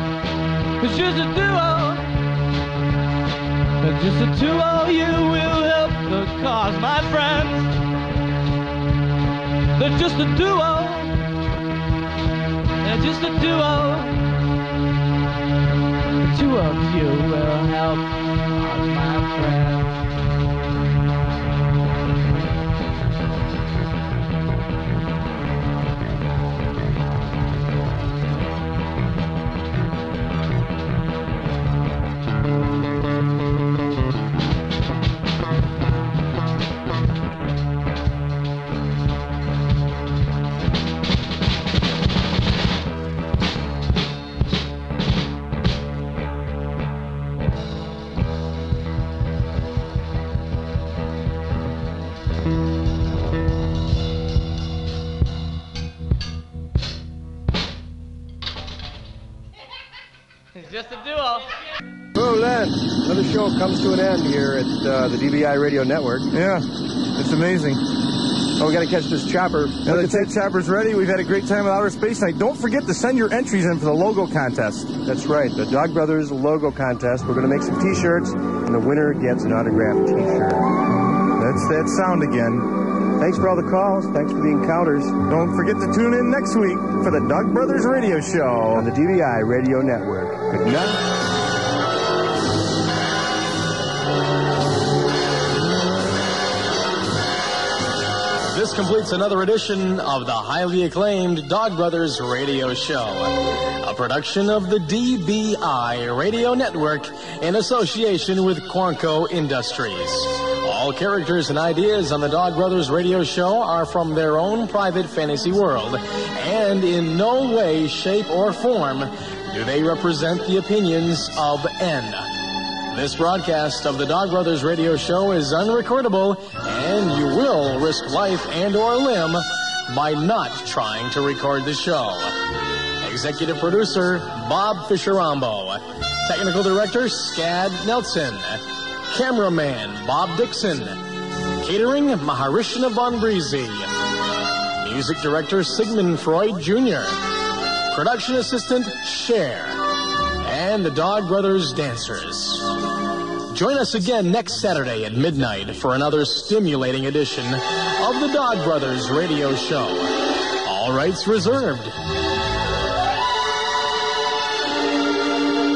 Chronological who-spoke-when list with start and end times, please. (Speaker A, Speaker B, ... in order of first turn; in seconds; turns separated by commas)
Speaker A: 0.8-2.1, Speaker A: 3.8-7.8, Speaker A: 9.8-11.2, Speaker A: 12.8-14.2, Speaker A: 16.2-20.0, Speaker A: 60.5-61.5, Speaker B: 62.1-66.3, Speaker C: 66.3-67.8, Speaker B: 68.6-70.3, Speaker C: 69.9-74.9, Speaker B: 75.0-80.7, Speaker C: 81.4-82.7, Speaker B: 83.2-85.2, Speaker C: 85.3-88.8, Speaker B: 88.7-90.7, Speaker D: 98.5-122.3, Speaker D: 122.9-132.3, Speaker D: 133.0-141.0, Speaker D: 141.6-143.9, Speaker D: 144.8-147.2, Speaker D: 147.9-149.8, Speaker D: 150.4-152.7, Speaker D: 153.5-161.9